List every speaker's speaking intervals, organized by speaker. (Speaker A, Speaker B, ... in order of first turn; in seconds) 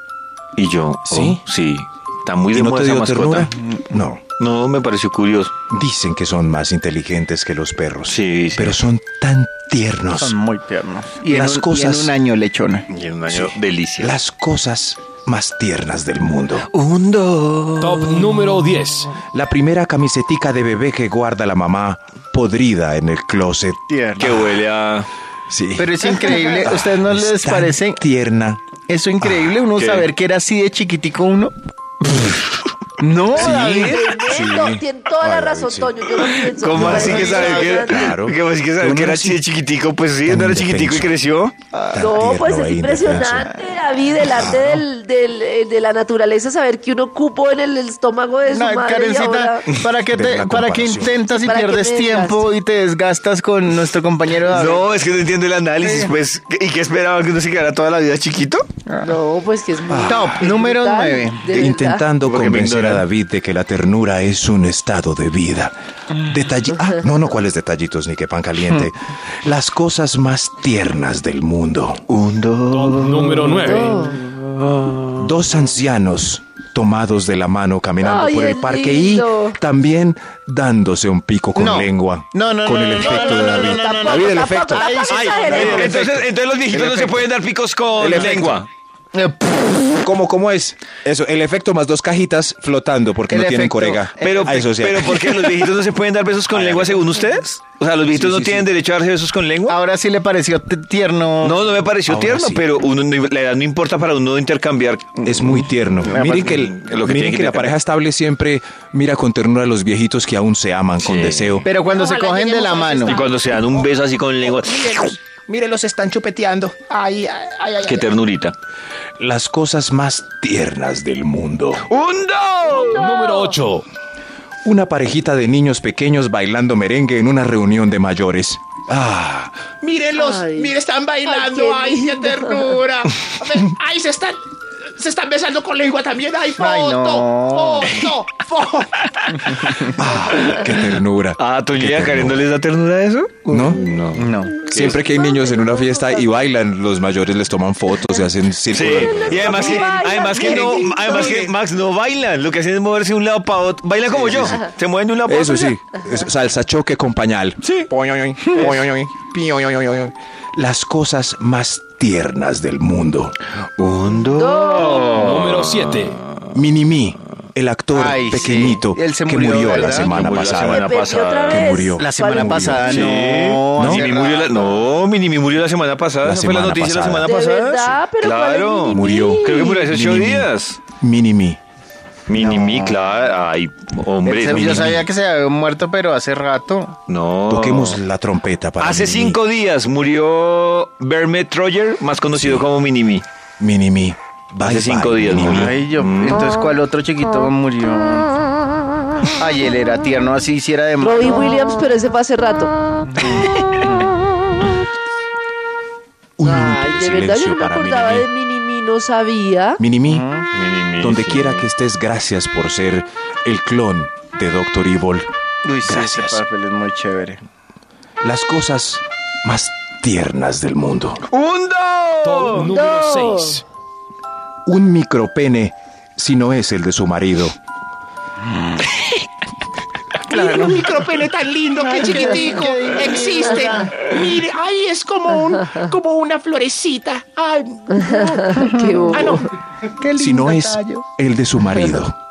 Speaker A: 0.6-3.5, 4.4-5.5, 8.1-8.8, 12.9-14.2, 16.6-19.0, 24.2-25.1, 29.7-30.1, 32.0-32.5, 36.4-41.5, 54.4-58.7, 62.2-63.1, 72.1-75.3, 85.3-88.7, 94.2-99.8, 101.4-105.4, 106.2-107.8, 111.0-111.7, 113.0-115.2, 117.8-118.5, 121.9-123.4, 139.5-139.8, 140.4-140.7, 141.4-145.0, 148.7-155.8, 163.8-166.5, 169.6-171.7, 172.8-180.8, 182.3-185.0, 187.1-188.0, 188.8-193.2, 194.6-196.5, 210.5-211.7, 221.3-222.7
Speaker B: 1.1-1.4, 2.5-4.2, 5.7-10.3, 11.2-12.1, 13.3-16.7, 19.3-24.6, 25.5-28.6, 29.2-29.5, 33.3-36.0, 36.7-39.4, 40.2-41.1, 41.9-43.5, 44.2-44.8, 49.7-51.1, 59.9-60.5, 61.5-72.0, 75.2-87.3, 88.0-88.6, 90.0-95.6, 96.5-97.0, 98.1-98.7, 102.0-102.7, 105.2-111.7, 115.5-116.5, 119.2-121.9, 124.6-129.7, 139.9-142.5, 143.5-143.9, 144.6-151.5, 154.1-154.7, 155.2-163.4, 166.5-173.0, 173.7-174.1, 176.2-177.9, 178.9-181.6, 184.5-185.0, 187.5-189.4, 192.3-192.7, 193.6-195.7, 206.4-208.3, 209.8-210.2, 211.0-215.3, 215.8-216.4, 218.2-221.2, 224.7-227.5, 240.2-242.2
Speaker C: 3.6-3.8, 10.1-12.8, 23.9-24.2, 25.8-28.0, 28.9-31.5, 33.0-34.2, 37.0-37.5, 41.7-42.1, 48.5-54.9, 55.8-56.1, 58.9-59.2, 60.1-61.4, 81.5-85.9, 89.1-90.1, 93.3-94.6, 99.7-101.6, 106.0-106.5, 111.6-113.3, 136.6-138.0, 139.3-139.7, 144.1-144.7, 167.9-170.2, 172.0-174.8, 182.3-182.9, 184.2-186.9, 195.4-198.4, 199.3-201.5, 203.1-204.1, 210.1-210.4, 215.6-217.4, 230.3-230.9, 231.8-234.0, 238.6-239.3, 240.0-241.0
Speaker D: 17.8-19.1, 72.7-73.9, 122.8-123.8, 164.8-166.2, 222.2-223.6
Speaker E: 33.3-38.1, 41.9-49.6, 51.2-52.5, 59.0-62.0, 73.6-74.2, 78.0-79.6, 83.1-85.9, 130.1-132.8, 144.8-146.1, 148.8-151.4, 164.2-165.5, 170.5-173.1, 177.2-179.9, 201.0-202.7, 206.4-209.8, 222.6-223.6, 237.9-239.5
Speaker F: 111.8-113.3, 115.5-118.1, 129.8-134.4, 134.9-138.9, 230.3-238.5, 239.1-239.4